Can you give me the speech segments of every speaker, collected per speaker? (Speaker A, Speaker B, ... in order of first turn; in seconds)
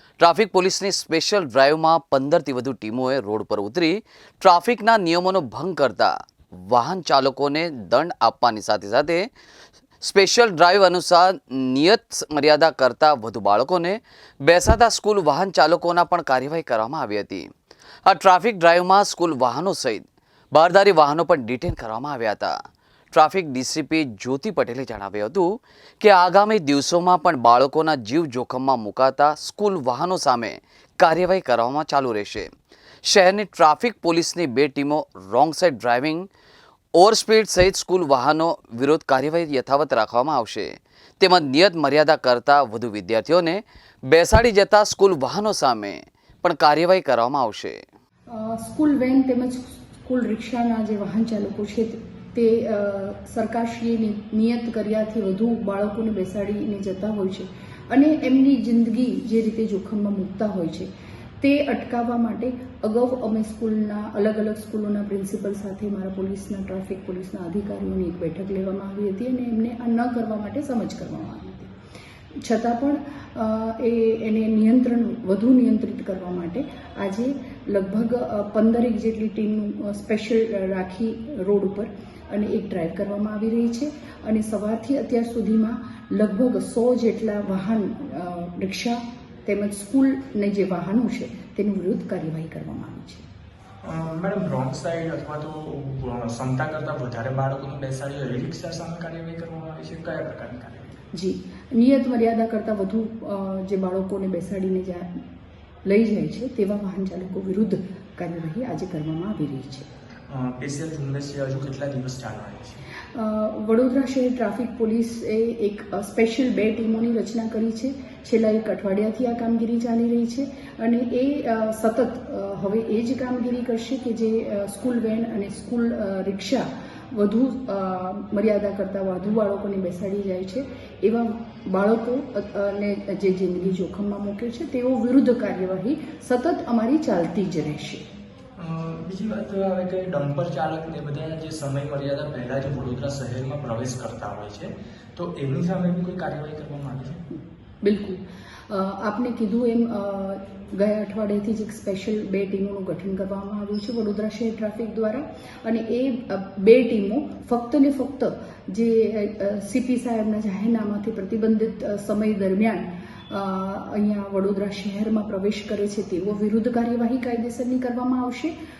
Speaker A: 0.2-9.3, 10.0-17.5, 18.1-22.5, 23.1-25.5, 26.0-32.5, 33.0-36.3, 37.0-47.8
Speaker B: 48.3-60.9, 61.4-71.7, 72.4-93.2, 101.1-105.1, 105.8-109.8, 113.1-138.0, 147.3-168.5
Speaker C: 93.8-101.0, 110.3-112.8, 138.6-147.2